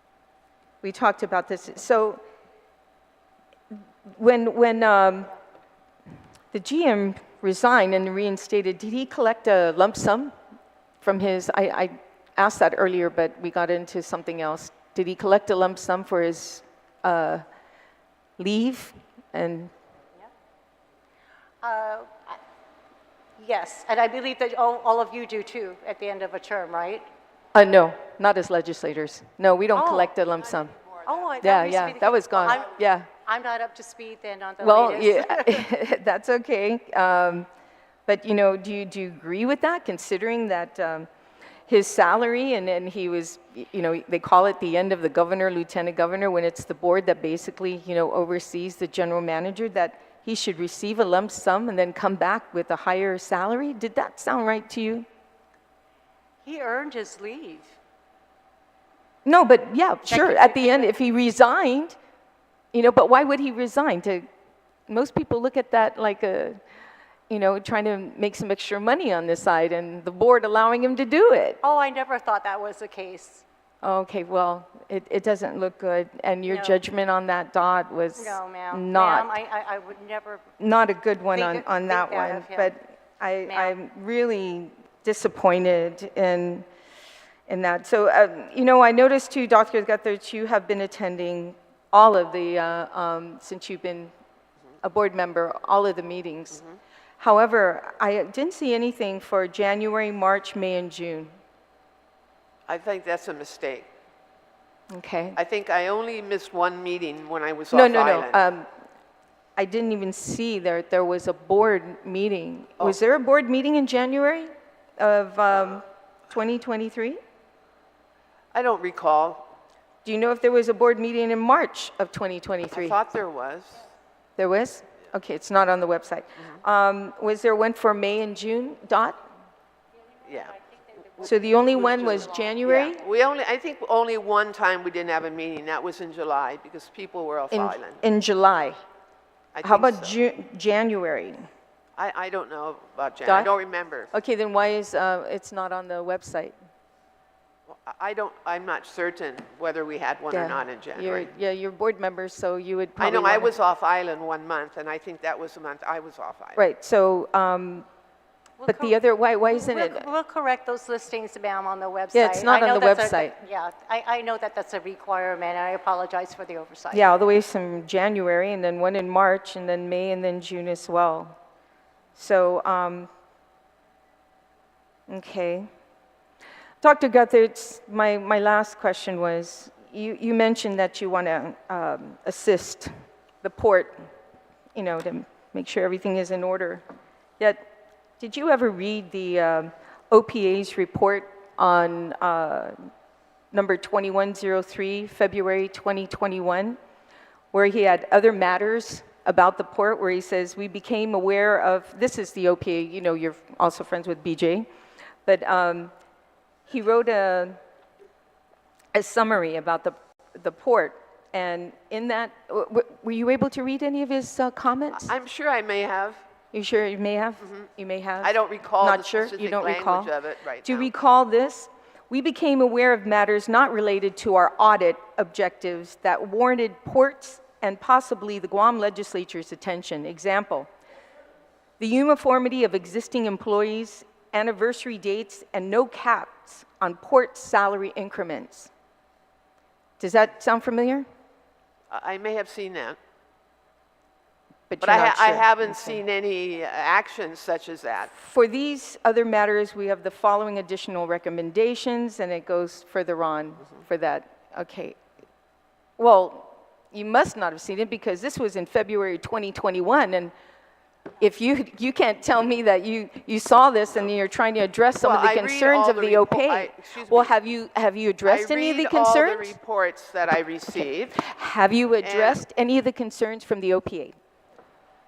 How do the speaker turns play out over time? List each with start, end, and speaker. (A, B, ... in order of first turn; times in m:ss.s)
0:00.8-0:02.2 A
0:04.1-0:05.3 A
0:06.5-0:10.3 A
0:11.0-0:17.4 A
0:18.4-0:19.7 A
0:21.6-0:22.4 B
0:23.4-0:27.0 B
0:27.5-0:30.8 A
0:29.7-0:30.1 B
0:31.0-0:32.7 B
0:31.4-0:33.1 A
0:33.2-0:35.7 B
0:34.6-0:37.5 A
0:38.0-0:41.1 A
0:41.7-0:55.0 A
0:56.4-0:57.8 B
0:59.2-1:02.0 A
1:00.1-1:01.0 B
1:02.7-1:04.2 A
1:04.9-1:06.6 A
1:07.3-1:11.6 A
1:11.6-1:13.4 B
1:13.8-1:19.3 A
1:16.4-1:16.8 B
1:18.2-1:20.4 B
1:20.6-1:26.6 A
1:21.3-1:22.7 B
1:23.4-1:23.7 B
1:27.5-1:34.1 A
1:34.8-1:36.7 A
1:37.2-1:41.3 A
1:42.7-1:43.9 C
1:44.9-1:45.4 A
1:45.4-1:48.4 C
1:47.7-1:48.7 A
1:49.6-1:57.2 A
1:58.5-1:59.5 C
2:00.0-2:03.0 A
2:02.7-2:03.8 C
2:04.4-2:09.2 A
2:10.2-2:10.6 C
2:11.2-2:13.0 A
2:11.2-2:18.0 C
2:17.5-2:18.8 A
2:19.5-2:20.2 C
2:19.6-2:21.5 A
2:22.0-2:24.1 C
2:23.2-2:23.5 A
2:24.1-2:26.5 A
2:27.7-2:31.3 C
2:30.3-2:33.5 A
2:33.0-2:36.6 C
2:36.6-2:37.8 A
2:38.6-2:39.0 B
2:38.6-2:40.0 A
2:39.5-2:47.2 B
2:42.1-2:43.4 A
2:46.9-2:51.4 A
2:52.2-2:53.1 A
2:55.1-2:55.7 A
2:56.8-3:02.9 A
3:03.4-3:04.0 A
3:04.7-3:06.8 A
3:08.2-3:12.8 A
3:13.5-3:16.8 A
3:17.5-3:24.7 A
3:25.2-3:25.9 A
3:26.7-3:27.6 A
3:28.9-3:35.1 A
3:35.0-3:36.2 C
3:36.5-3:40.1 A
3:38.2-3:40.9 C
3:40.6-3:50.7 A
3:51.8-3:58.7 A
4:00.0-4:01.0 A
4:01.9-4:03.0 C
4:04.7-4:06.0 A
4:04.8-4:08.1 C
4:08.1-4:15.0 A
4:16.0-4:20.3 A
4:21.2-4:29.6 A
4:25.0-4:27.3 C
4:28.2-4:31.2 C
4:31.1-4:34.2 A
4:32.0-4:32.4 C